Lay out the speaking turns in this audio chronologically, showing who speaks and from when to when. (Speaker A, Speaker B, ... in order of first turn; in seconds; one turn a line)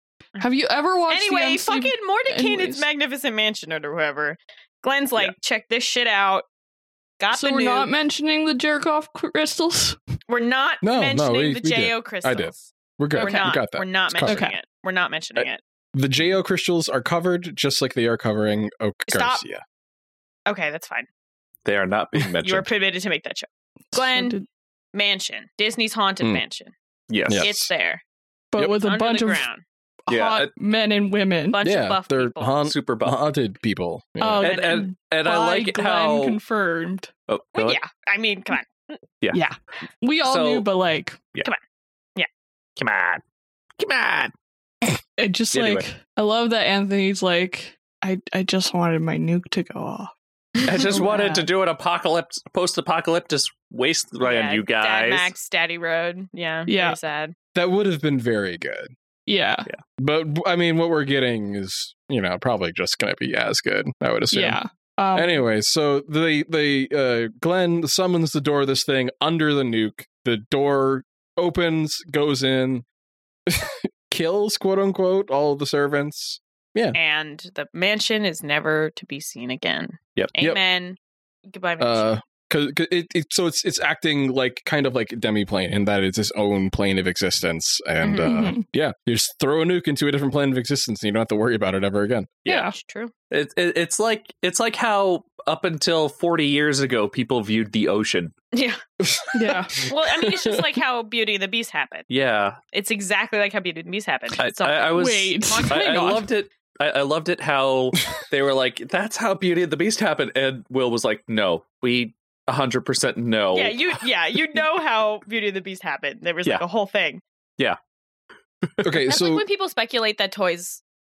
Speaker A: 0.4-2.9
Speaker B: 1.1-6.5
Speaker B: 7.2-7.9
Speaker A: 7.3-10.0
Speaker B: 10.3-15.6
Speaker C: 10.8-14.4
Speaker A: 13.2-13.6
Speaker A: 14.2-14.5
Speaker C: 15.9-19.6
Speaker B: 19.1-19.4
Speaker B: 20.5-21.1
Speaker D: 21.6-22.7
Speaker B: 22.4-24.4
Speaker A: 23.9-24.4
Speaker B: 24.9-26.7
Speaker D: 27.1-27.5
Speaker C: 27.3-27.7
Speaker B: 27.4-28.0
Speaker A: 28.5-29.5
Speaker B: 28.8-29.6
Speaker A: 30.1-31.6
Speaker D: 30.1-30.5
Speaker B: 31.5-32.6
Speaker C: 31.6-34.5
Speaker D: 32.6-33.2
Speaker A: 34.2-37.1
Speaker D: 34.4-36.4
Speaker D: 37.3-37.8
Speaker B: 37.5-39.0
Speaker A: 39.3-41.2
Speaker D: 40.2-40.7
Speaker D: 42.8-43.2
Speaker D: 43.8-44.3
Speaker A: 45.2-50.1
Speaker D: 45.5-45.9
Speaker D: 50.6-55.3
Speaker B: 50.9-51.4
Speaker A: 50.9-51.3
Speaker B: 54.2-57.3
Speaker A: 56.6-57.0
Speaker C: 57.5-58.9
Speaker A: 59.3-59.7
Speaker C: 60.0-64.6
Speaker A: 64.3-65.4
Speaker C: 65.1-72.8
Speaker C: 73.5-77.0
Speaker B: 76.9-82.1
Speaker C: 81.8-92.3
Speaker B: 88.0-88.4
Speaker A: 88.2-88.6
Speaker D: 92.4-92.7
Speaker A: 92.5-92.7
Speaker B: 92.5-93.1
Speaker D: 93.3-98.3
Speaker B: 98.5-98.8
Speaker C: 99.0-100.7
Speaker A: 99.3-99.8
Speaker B: 99.5-102.1
Speaker D: 102.1-102.6
Speaker B: 102.7-106.0
Speaker D: 104.4-113.9
Speaker A: 104.9-106.3
Speaker B: 113.5-117.2
Speaker C: 118.8-119.4
Speaker B: 119.0-120.8